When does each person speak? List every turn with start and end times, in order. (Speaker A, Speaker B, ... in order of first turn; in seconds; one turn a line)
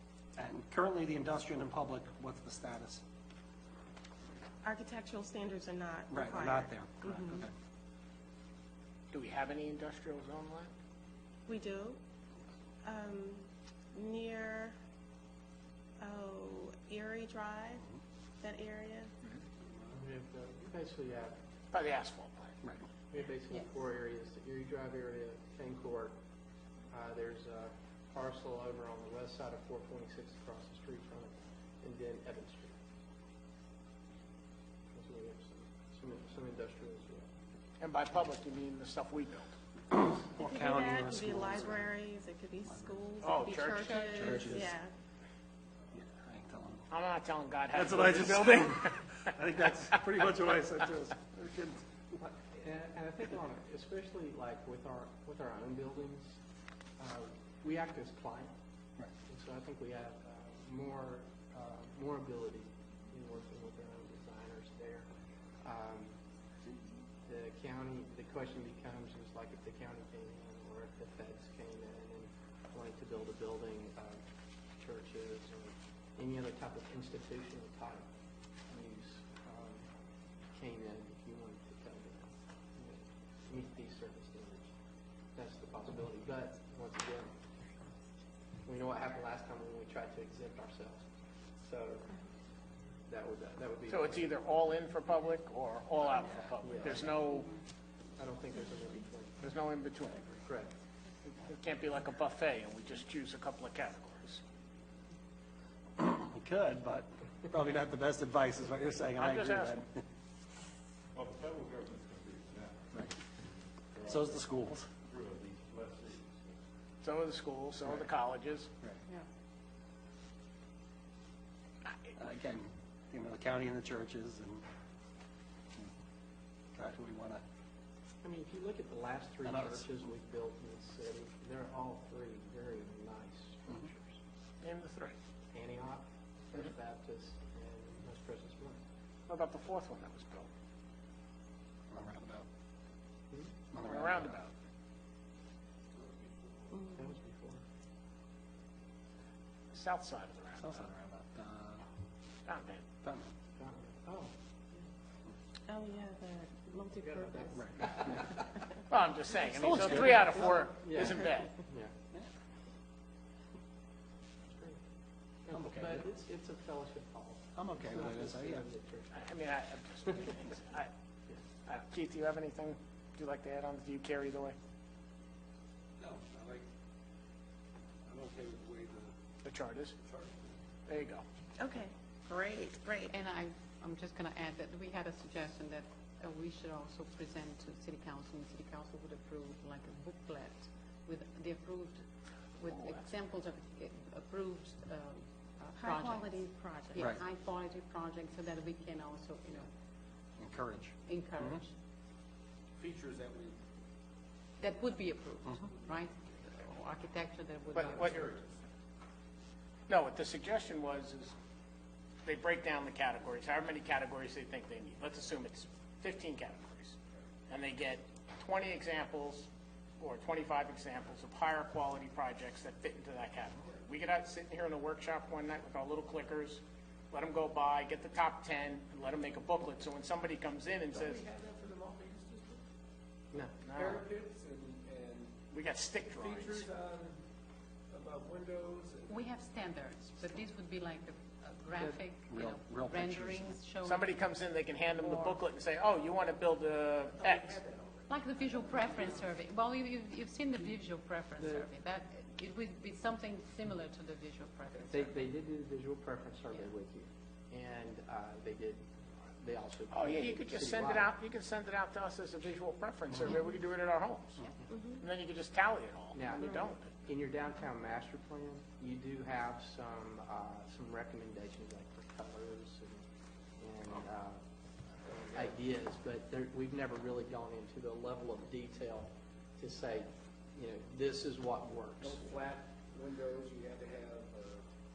Speaker A: 0.4-3.0
Speaker B: 4.6-7.4
Speaker A: 6.1-7.5
Speaker C: 9.1-10.7
Speaker B: 11.5-12.0
Speaker B: 12.8-14.8
Speaker B: 16.0-17.8
Speaker B: 18.4-19.1
Speaker D: 19.9-21.4
Speaker C: 21.7-22.5
Speaker D: 23.1-26.2
Speaker D: 26.9-32.8
Speaker D: 34.9-37.3
Speaker C: 37.8-39.5
Speaker A: 39.9-41.9
Speaker B: 40.4-44.9
Speaker A: 42.6-43.0
Speaker C: 43.2-44.6
Speaker E: 43.9-44.2
Speaker A: 44.1-44.8
Speaker A: 45.9-46.9
Speaker C: 46.9-49.2
Speaker A: 47.7-52.4
Speaker D: 52.5-56.4
Speaker D: 57.0-58.5
Speaker D: 59.3-65.1
Speaker D: 65.6-66.1
Speaker D: 67.3-74.2
Speaker D: 74.8-78.1
Speaker D: 78.7-79.9
Speaker D: 80.5-84.7
Speaker D: 85.3-87.3
Speaker D: 88.7-91.0
Speaker D: 91.6-92.2
Speaker D: 93.1-94.4
Speaker C: 93.9-97.5
Speaker D: 96.6-97.2
Speaker D: 98.2-99.4
Speaker C: 99.4-100.4
Speaker D: 100.4-100.7
Speaker C: 101.3-104.4
Speaker A: 106.0-109.9
Speaker C: 109.2-109.8
Speaker F: 111.2-112.7
Speaker A: 114.0-114.9
Speaker F: 115.1-116.2
Speaker C: 117.0-118.7
Speaker A: 122.2-124.6
Speaker A: 126.8-127.4
Speaker D: 128.2-134.2
Speaker A: 129.4-129.9
Speaker C: 134.6-135.1
Speaker D: 135.5-138.8
Speaker C: 139.3-140.5
Speaker A: 141.9-142.5
Speaker A: 143.7-144.3
Speaker C: 143.8-144.5
Speaker B: 146.7-147.1
Speaker D: 146.9-147.6
Speaker C: 149.7-150.9
Speaker A: 150.6-151.8
Speaker C: 152.5-152.8
Speaker A: 153.0-153.3
Speaker D: 153.6-154.3
Speaker B: 155.7-157.6
Speaker D: 157.0-158.2
Speaker A: 157.6-158.4
Speaker C: 158.9-161.6
Speaker A: 159.6-160.6
Speaker D: 160.6-161.9
Speaker D: 164.5-164.8
Speaker D: 165.4-169.1
Speaker A: 165.5-166.0
Speaker A: 167.6-168.7
Speaker C: 169.1-170.9
Speaker C: 171.7-174.6
Speaker G: 176.0-176.6
Speaker G: 178.1-179.2
Speaker C: 179.4-179.9
Speaker G: 180.0-180.6
Speaker C: 180.9-181.2
Speaker B: 181.6-183.1
Speaker E: 183.1-192.1
Speaker E: 192.6-199.7
Speaker C: 192.7-193.1
Speaker B: 195.8-197.1
Speaker A: 197.0-197.2
Speaker A: 200.4-201.6
Speaker E: 201.1-201.7
Speaker G: 202.8-203.6
Speaker E: 204.6-208.3
Speaker G: 205.7-206.2
Speaker G: 207.7-208.5
Speaker C: 207.8-208.1
Speaker C: 209.9-211.3
Speaker C: 212.2-217.0
Speaker C: 217.5-219.5
Speaker C: 220.0-231.2
Speaker G: 230.9-232.6
Speaker C: 233.6-234.0
Speaker G: 233.7-235.4
Speaker C: 235.5-236.7
Speaker G: 235.9-237.2
Speaker G: 237.9-239.2
Speaker E: 239.1-244.3
Speaker A: 242.3-243.5
Speaker C: 243.8-247.5
Speaker E: 244.9-245.4
Speaker G: 247.1-249.3
Speaker E: 248.1-255.0
Speaker G: 254.7-255.2
Speaker D: 254.9-261.1
Speaker C: 259.9-266.9
Speaker B: 264.8-265.0
Speaker D: 266.1-273.1
Speaker D: 273.6-274.4
Speaker D: 275.1-282.3
Speaker G: 282.0-284.6